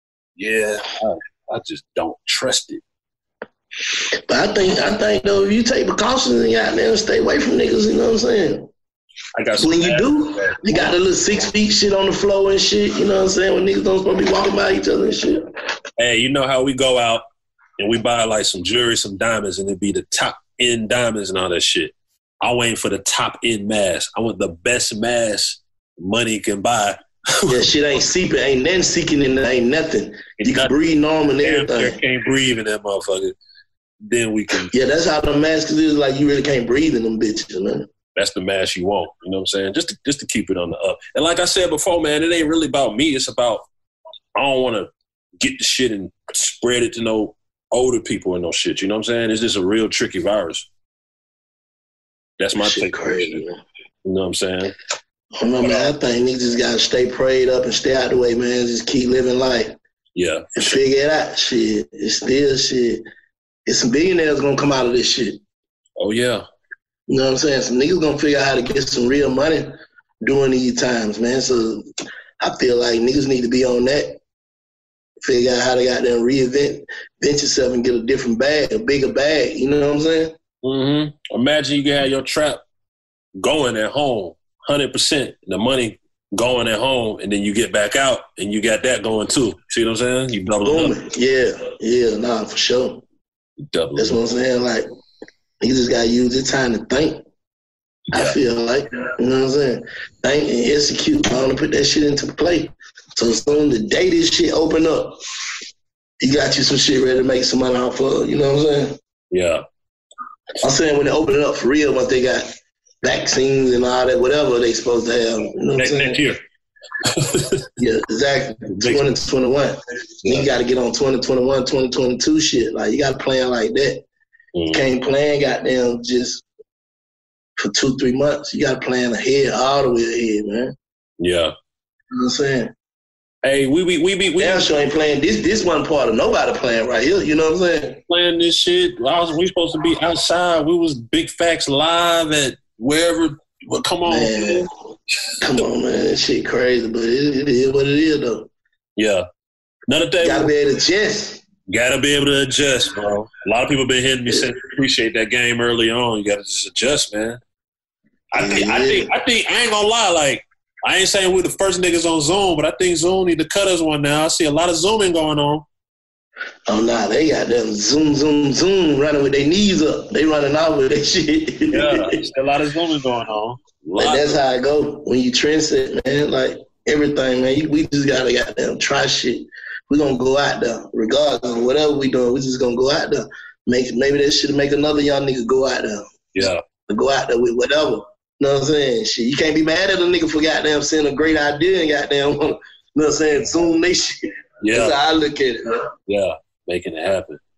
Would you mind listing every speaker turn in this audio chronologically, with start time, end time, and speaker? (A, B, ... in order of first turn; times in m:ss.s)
0:00.4-0:02.8 A
0:04.3-0:08.7 B
0:09.4-0:10.9 A
0:09.6-0:15.5 B
0:16.0-0:17.2 A
0:17.8-0:27.7 A
0:27.5-0:32.0 B
0:30.4-0:30.7 A
0:31.4-0:33.3 A
0:34.1-0:34.7 A
0:34.7-0:37.9 B
0:38.2-0:43.6 A
0:44.4-0:44.9 A
0:45.4-0:50.7 A
0:52.4-0:53.4 A
0:52.6-0:53.6 B
0:54.0-0:54.7 A
0:55.4-0:59.8 B
0:55.6-0:55.9 A
1:00.2-1:00.8 A
1:00.6-1:03.0 B
1:03.7-1:05.4 B
1:06.0-1:06.4 A
1:07.1-1:11.9 B
1:12.4-1:14.2 B
1:15.2-1:20.3 B
1:20.6-1:22.6 A
1:23.4-1:30.9 A
1:30.6-1:33.0 B
1:33.6-1:34.2 A
1:34.0-1:34.9 B
1:35.6-1:37.2 B
1:38.1-1:38.4 A
1:38.1-1:45.2 B
1:46.2-1:49.0 B
1:49.3-1:49.6 A
1:50.6-1:52.5 B
1:53.0-1:56.2 B
1:55.8-1:56.4 A
1:57.2-1:57.6 A
1:57.8-2:04.0 B
1:58.8-1:59.2 A
2:04.6-2:04.8 A
2:04.7-2:06.4 B
2:07.6-2:10.7 B
2:11.2-2:11.5 A
2:12.1-2:12.7 B
2:13.4-2:14.7 A
2:14.4-2:18.0 B
2:18.1-2:24.7 A
2:24.1-2:24.7 B
2:25.3-2:25.6 A
2:25.4-2:28.5 B
2:29.0-2:29.3 A
2:29.9-2:30.5 A
2:30.2-2:31.4 B
2:31.7-2:37.4 A
2:38.3-2:45.7 A
2:38.4-2:39.1 B
2:46.7-2:52.2 B
2:51.7-2:54.4 A
2:54.0-3:06.1 B
3:06.4-3:06.6 A
3:06.9-3:15.9 B
3:14.6-3:15.0 A
3:16.1-3:17.4 A